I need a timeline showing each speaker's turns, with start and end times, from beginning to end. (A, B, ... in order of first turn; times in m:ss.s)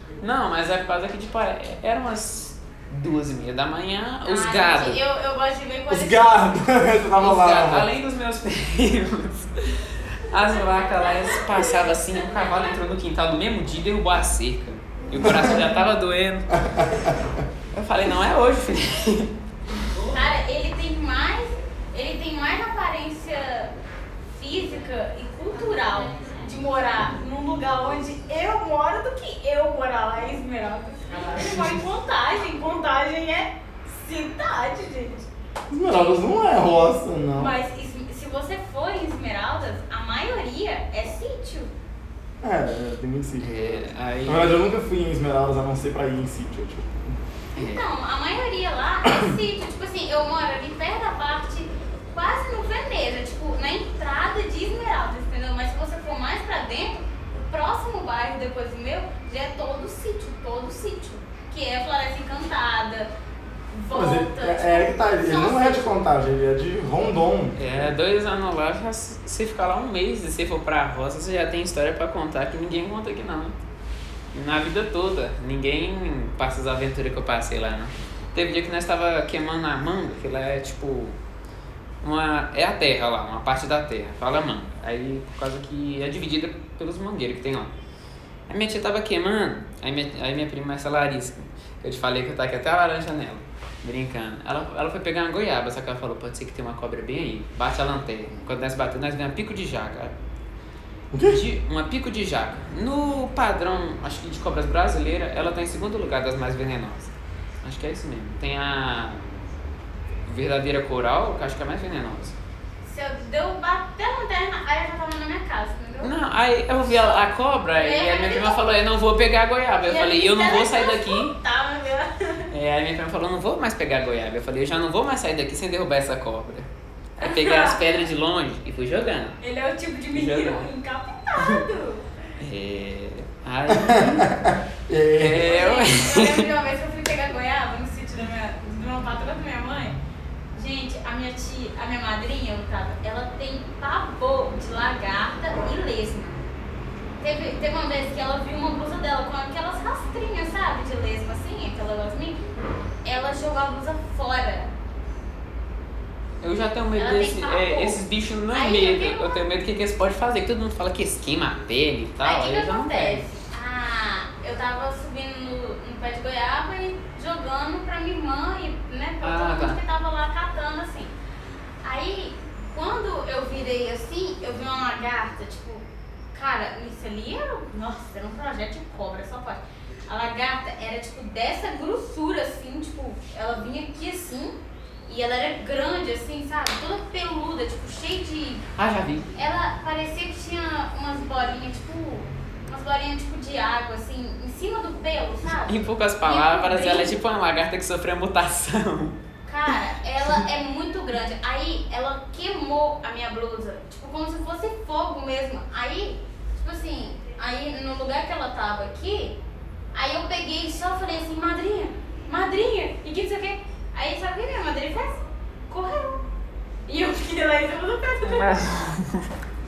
0:00.2-0:05.0 A
0:04.2-0:06.4 B
0:05.9-0:07.9 C
0:07.2-0:16.6 A
0:10.3-0:12.7 B
0:15.1-0:15.6 C
0:16.5-0:17.2 C
0:17.7-0:19.3 A
0:20.0-0:23.7 B
0:24.3-0:35.3 B
0:31.4-0:31.6 C
0:35.7-0:37.5 C
0:37.3-0:41.7 B
0:42.4-0:43.7 C
0:43.4-0:44.6 A
0:44.2-0:47.1 C
0:47.6-0:47.8 A
0:47.6-1:03.1 B
1:03.7-1:05.9 B
1:03.9-1:07.6 C
1:07.6-1:13.5 A
1:14.3-1:21.2 A
1:22.0-1:27.7 A
1:28.5-1:40.1 A
1:41.1-1:41.4 C
1:41.2-1:49.2 A
1:50.3-1:52.4 A
1:52.8-1:56.1 B
1:56.0-2:01.3 A
1:56.8-1:58.6 B
1:59.8-2:02.5 B
2:02.5-2:09.4 A
2:07.2-2:08.0 B
2:09.4-2:12.0 B
2:10.1-2:10.7 A
2:12.4-2:14.3 A
2:13.7-2:15.6 C
2:15.1-2:16.5 A
2:15.4-2:20.0 B
2:20.5-2:26.4 B
2:27.2-2:32.4 B
2:33.0-2:34.7 B
2:36.4-2:43.2 A
2:37.0-2:39.4 B
2:42.2-2:51.1 B
2:49.2-2:49.8 A
2:51.8-3:04.5 B
3:05.1-3:08.6 B
3:08.8-3:09.2 A
3:09.3-3:17.2 B
3:15.6-3:19.2 A
3:19.5-3:29.4 B
3:29.9-3:36.2 B
3:36.9-3:38.8 B
3:38.2-3:39.3 A